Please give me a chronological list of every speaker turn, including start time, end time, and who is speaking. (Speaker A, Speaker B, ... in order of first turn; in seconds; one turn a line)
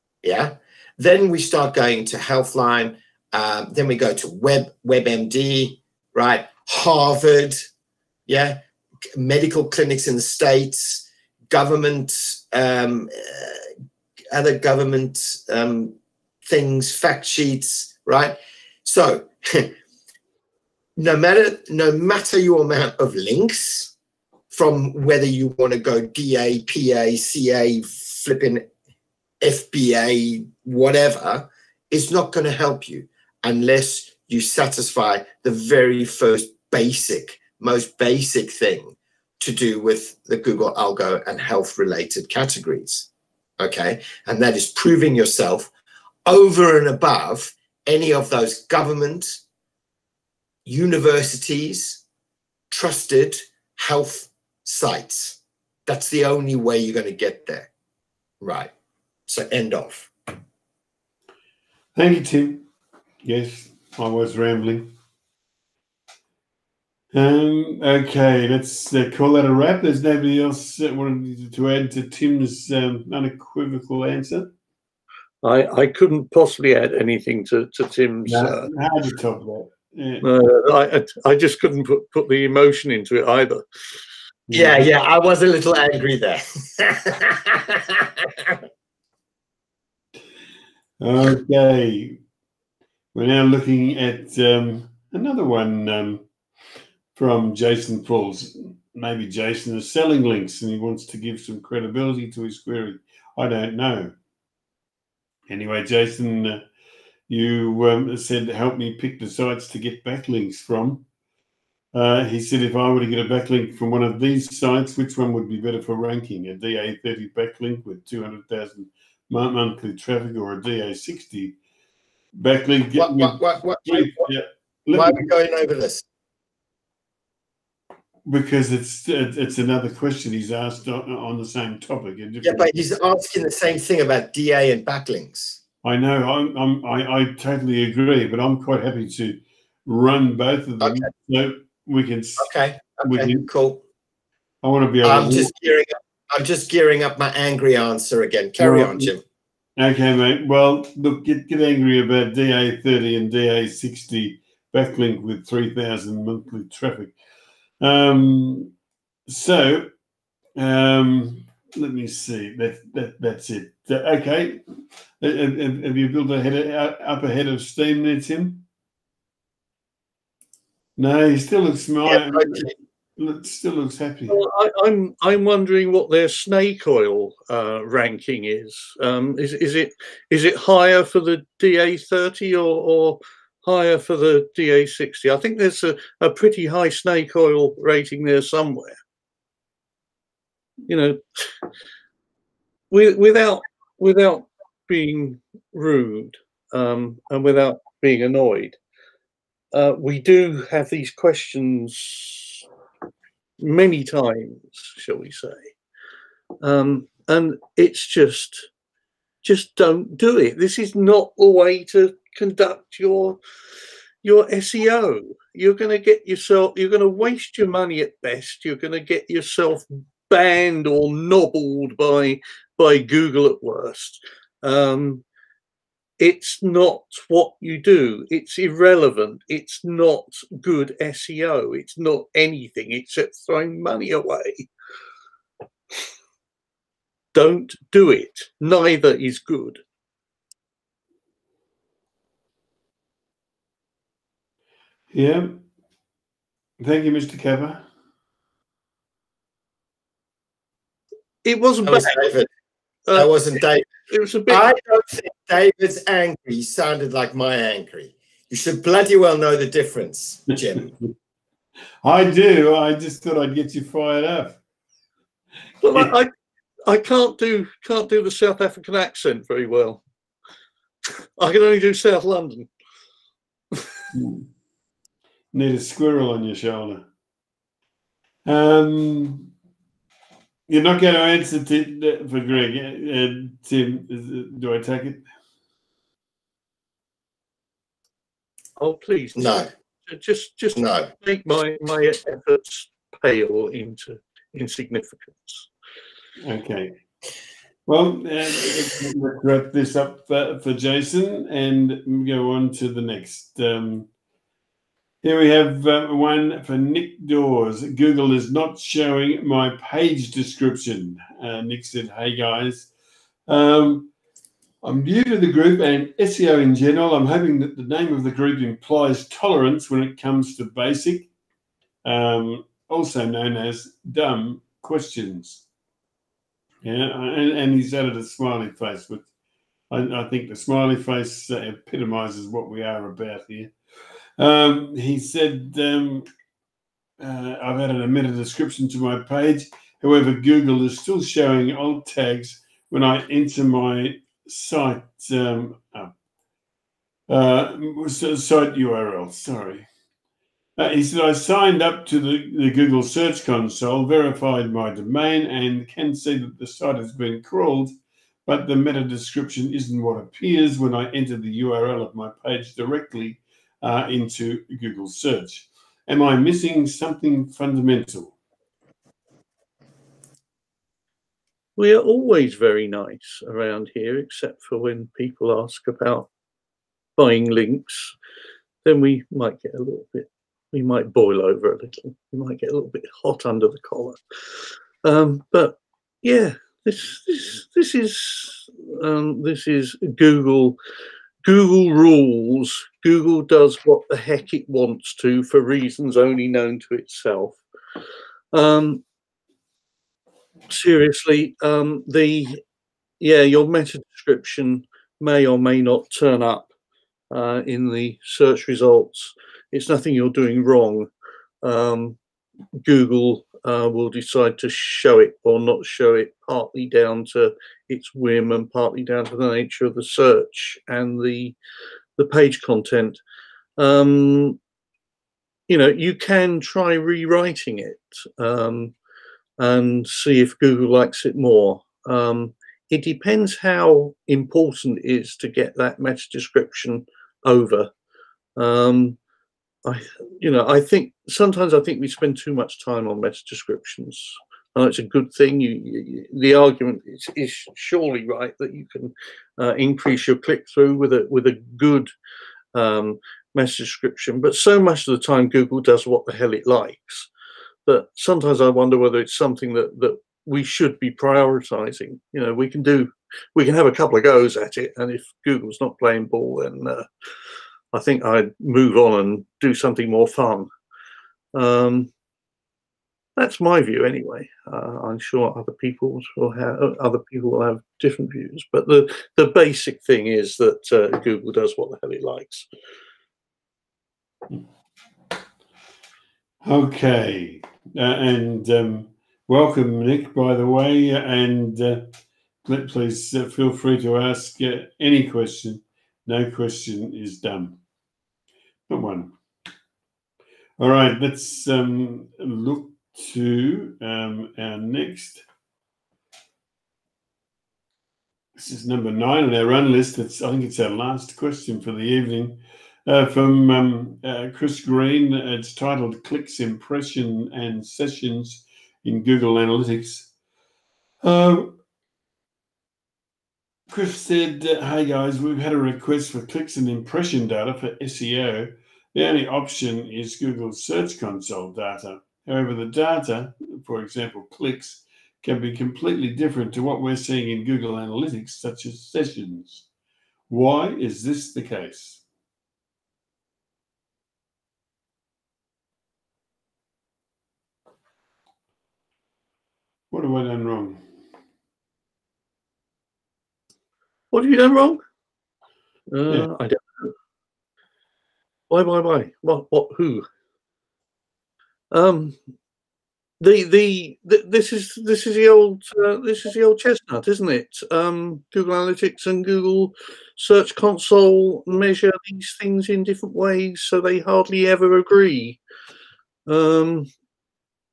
Speaker A: 0.2-7.6
Speaker A: 8.3-8.6
Speaker A: 9.2-13.7
Speaker A: 14.3-19.7
Speaker A: 21.0-23.9
Speaker A: 24.5-28.7
Speaker A: 29.4-43.1
Speaker A: 43.6-45.7
Speaker A: 46.3-49.4
Speaker A: 50.7-52.0
Speaker A: 52.7-57.7
Speaker A: 58.4-58.7
Speaker A: 59.3-60.1
Speaker B: 62.0-62.7
Speaker B: 63.2-64.9
Speaker B: 67.1-74.5
Speaker C: 75.4-78.7
Speaker B: 78.3-80.3
Speaker C: 80.2-83.6
Speaker B: 84.5-84.9
Speaker A: 84.5-88.6
Speaker B: 91.0-92.2
Speaker B: 93.1-96.3
Speaker B: 97.2-104.1
Speaker B: 105.5-106.7
Speaker B: 107.3-111.1
Speaker B: 111.9-121.6
Speaker B: 122.3-125.3
Speaker A: 123.0-124.3
Speaker A: 124.9-126.0
Speaker B: 128.3-132.8
Speaker A: 132.4-135.6
Speaker B: 135.8-143.5
Speaker A: 140.8-141.1
Speaker A: 142.4-143.8
Speaker B: 144.6-145.5
Speaker A: 145.0-149.2
Speaker B: 148.6-149.1
Speaker B: 149.8-157.2
Speaker B: 157.8-158.7
Speaker B: 159.3-159.9
Speaker B: 160.6-164.6
Speaker B: 165.2-168.7
Speaker B: 171.0-174.4
Speaker A: 172.1-172.7
Speaker C: 174.3-189.0
Speaker C: 190.9-191.6
Speaker C: 192.9-198.8
Speaker C: 199.7-202.6
Speaker C: 203.6-205.7
Speaker C: 206.6-208.7
Speaker C: 209.4-213.4
Speaker C: 214.2-225.2
Speaker C: 226.2-234.7
Speaker C: 237.3-239.8
Speaker B: 245.1-245.6
Speaker B: 246.8-247.9
Speaker C: 251.4-252.3
Speaker A: 251.8-252.5
Speaker C: 253.1-253.6
Speaker A: 253.2-253.9
Speaker C: 254.1-254.7
Speaker A: 254.5-260.9
Speaker B: 262.0-264.6
Speaker C: 265.8-266.3
Speaker C: 266.9-270.0
Speaker C: 271.4-272.7
Speaker B: 274.1-274.5
Speaker B: 275.5-277.1
Speaker B: 278.5-279.5
Speaker B: 280.7-285.2
Speaker C: 288.8-295.7
Speaker A: 289.4-289.7
Speaker A: 290.7-291.1
Speaker B: 296.4-296.9
Speaker B: 297.9-304.1
Speaker B: 305.2-312.9
Speaker B: 313.5-314.1
Speaker B: 314.8-321.3
Speaker B: 322.1-325.6
Speaker B: 326.8-329.2
Speaker B: 329.9-333.7
Speaker B: 334.4-336.3
Speaker B: 337.2-346.1
Speaker B: 347.3-349.9
Speaker B: 350.8-357.9
Speaker B: 358.5-368.4
Speaker C: 371.8-376.3
Speaker C: 377.2-378.1
Speaker C: 378.9-384.2
Speaker C: 385.0-390.8
Speaker C: 391.4-397.6
Speaker C: 398.5-399.0
Speaker C: 400.7-402.6
Speaker C: 403.2-406.7
Speaker C: 407.3-411.1
Speaker C: 411.6-412.2
Speaker C: 412.8-421.6
Speaker C: 422.2-423.2
Speaker C: 423.8-424.6
Speaker C: 425.7-428.9
Speaker C: 429.6-437.9
Speaker C: 438.6-439.2
Speaker C: 439.9-452.1
Speaker C: 452.7-457.3
Speaker C: 457.9-467.1
Speaker C: 467.9-470.7
Speaker C: 471.6-472.1
Speaker C: 473.4-482.7
Speaker B: 486.6-492.1
Speaker B: 492.6-497.8
Speaker B: 498.9-499.3
Speaker B: 500.8-505.4
Speaker B: 508.6-520.3
Speaker B: 521.2-521.8
Speaker B: 523.9-539.9
Speaker B: 540.5-542.2
Speaker B: 550.1-551.0
Speaker C: 554.3-555.0
Speaker C: 556.1-557.1
Speaker C: 558.7-560.3
Speaker C: 561.9-562.4
Speaker C: 563.4-575.6
Speaker C: 576.5-577.1